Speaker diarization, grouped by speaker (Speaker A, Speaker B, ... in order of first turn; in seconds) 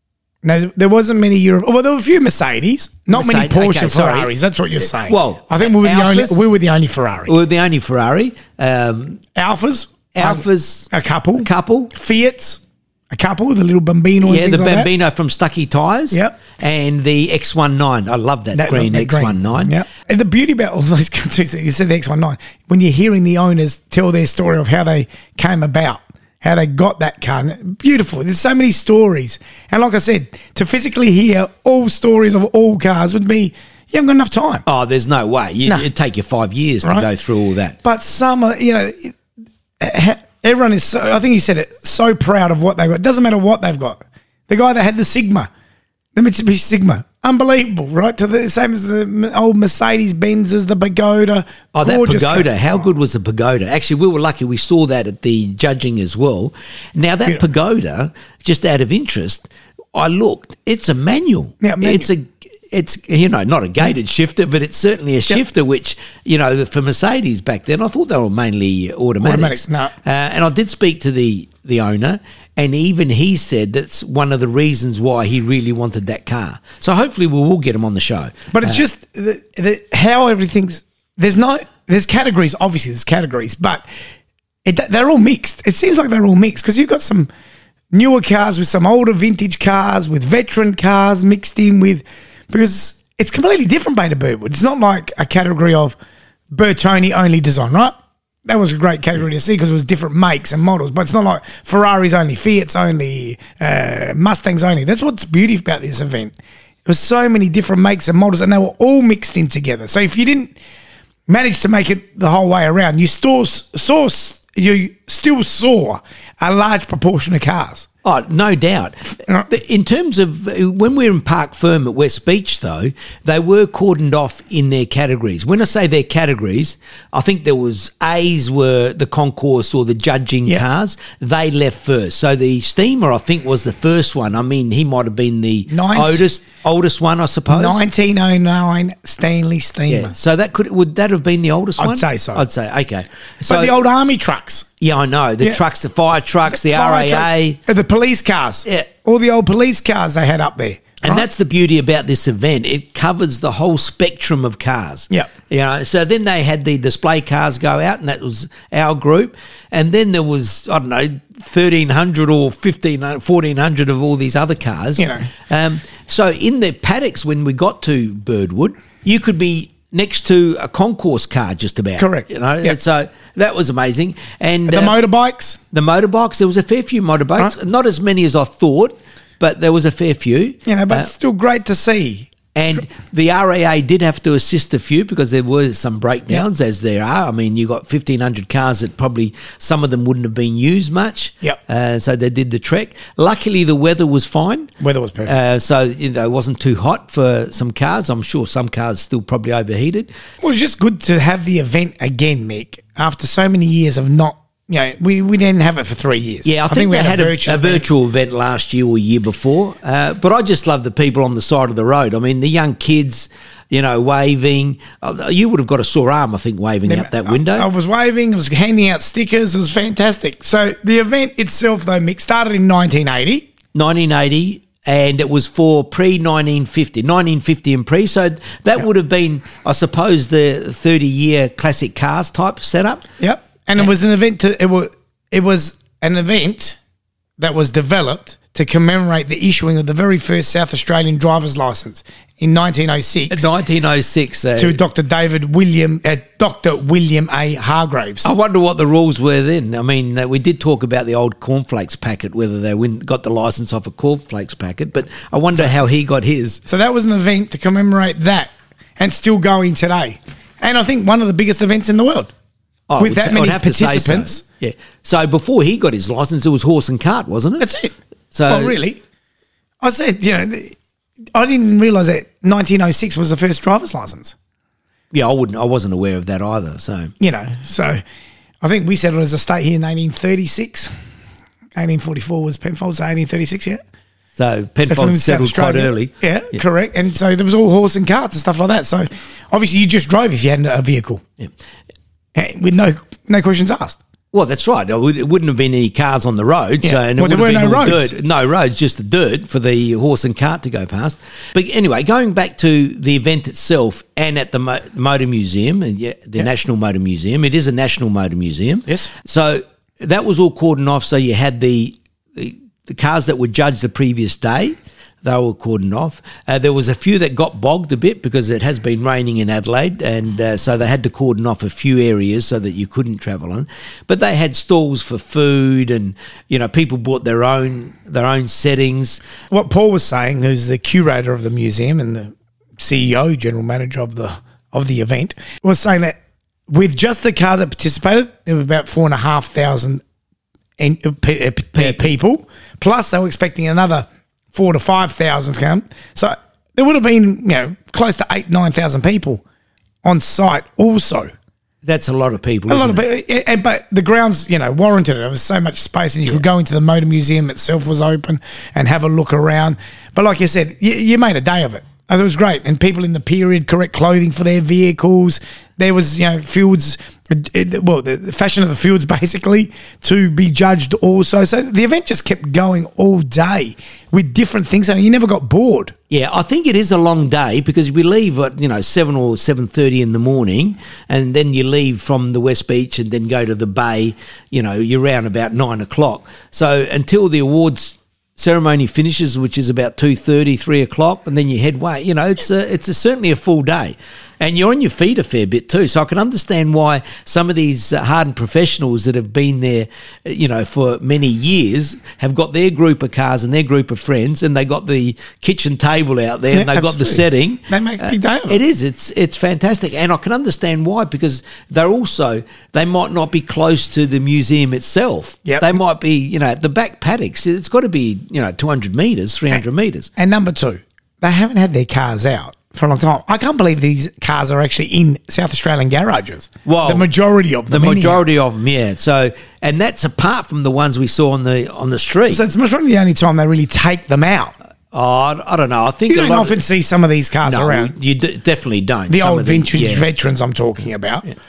Speaker A: 0.4-7.3, 9.3-12.6, 13.1-14.9, 16.1-16.4, 18.5-34.6, 37.8-39.1, 39.8-45.5, 46.1-52.8, 61.6-62.1, 69.2-69.9, 78.5-83.8, 84.6-87.3, 87.9-96.0, 96.5-106.3, 106.8-110.5, 111.3-117.8, 135.7-136.3, 137.5-140.1, 141.8-142.4, 143.5-144.7, 146.5-151.2, 165.0-165.3, 172.0-172.8, 174.7-175.6, 180.7-182.8, 194.8-195.3, 200.4-207.8, 216.9-223.5, 233.2-236.8, 237.4-243.5, 244.6-248.3, 256.7-262.3, 263.0-264.4, 267.6-267.9, 268.5-269.0, 269.8-270.7, 271.3-274.3, 277.2-278.0, 278.6-280.9, 281.8-283.8, 284.9-291.2, 292.3-294.0, 296.8-298.1, 329.5-336.1, 336.7-340.0, 340.8-349.4, 350.0-351.3, 352.7-375.9, 406.5-408.6, 415.4-415.8, 420.2-428.2, 432.3-434.5, 436.1-437.9, 439.1-441.2
Speaker B: 3.1-4.3, 5.0-6.4, 7.3-9.2, 10.1-11.9, 14.2-19.7, 34.6-37.8, 51.7-78.8, 118.0-137.8, 139.9-143.8, 144.8-147.6, 151.0-175.0, 175.7-181.1, 182.5-194.7, 195.2-200.1, 206.4-217.7, 223.7-233.0, 243.3-244.8, 248.2-256.6, 262.9-267.6, 268.3-268.8, 275.1-277.1, 284.4-286.6, 294.3-329.2, 341.7-342.1, 351.8-353.0, 376.1-420.1, 426.6-427.1, 427.7-432.4, 434.9-436.6, 437.4-440.1